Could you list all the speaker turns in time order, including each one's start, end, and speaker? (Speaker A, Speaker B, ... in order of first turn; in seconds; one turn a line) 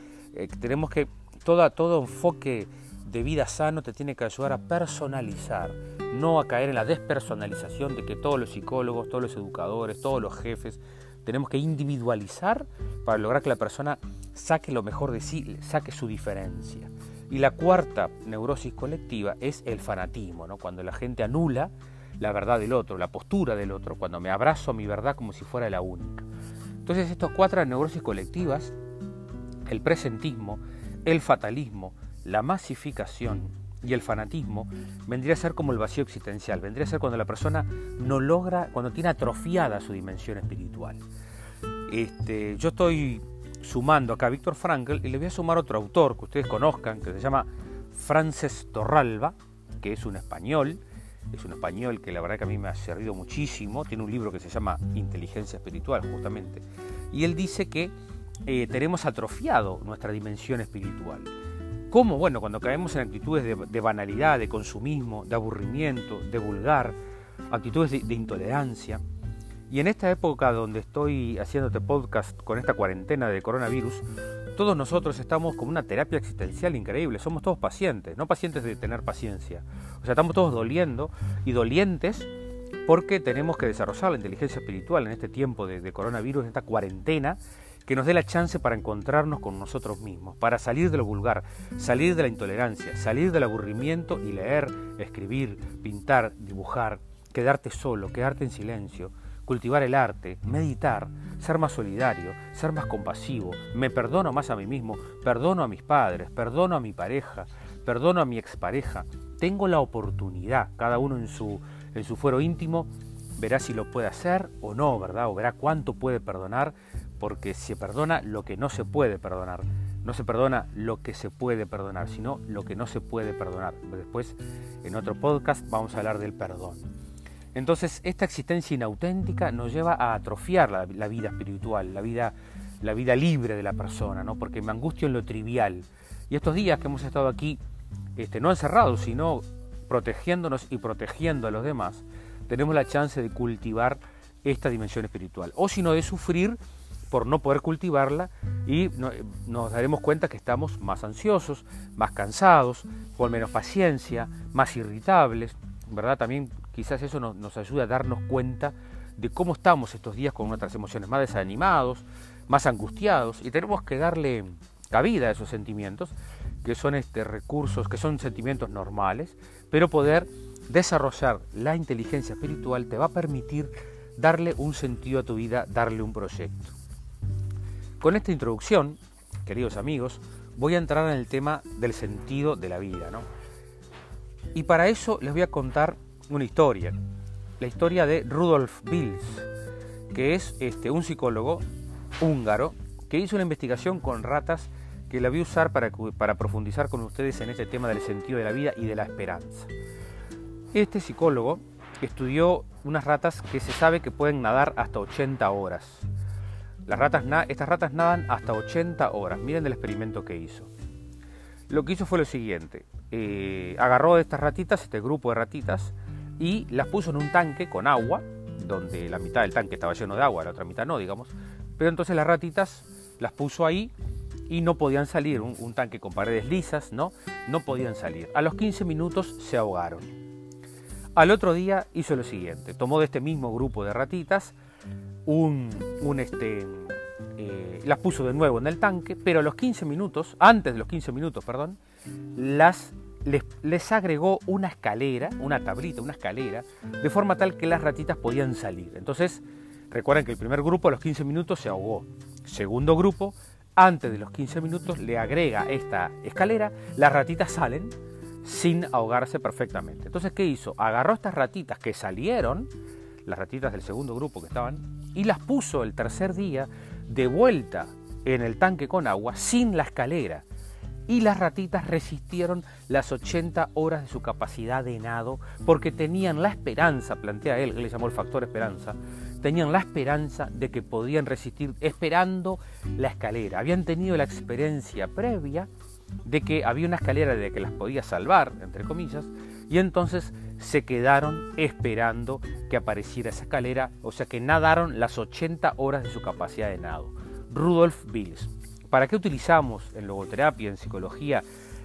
Speaker A: 0.3-26.3
Speaker A: 26.8-28.8
Speaker A: 29.6-41.0
Speaker A: 41.9-57.9
Speaker A: 58.5-61.3
Speaker A: 61.9-67.0
Speaker A: 67.5-69.0
Speaker A: 69.7-82.3
Speaker A: 82.9-126.9
Speaker A: 127.5-137.6
Speaker A: 138.2-146.6
Speaker A: 147.1-166.1
Speaker A: 166.6-176.8
Speaker A: 178.0-183.3
Speaker A: 184.5-187.0
Speaker A: 187.6-189.5
Speaker A: 190.1-191.6
Speaker A: 192.2-199.7
Speaker A: 200.7-206.1
Speaker A: 206.9-210.7
Speaker A: 211.7-223.9
Speaker A: 224.5-230.1
Speaker A: 231.2-234.6
Speaker A: 235.3-241.8
Speaker A: 242.3-262.7
Speaker A: 263.2-270.4
Speaker A: 271.1-285.7
Speaker A: 286.2-301.4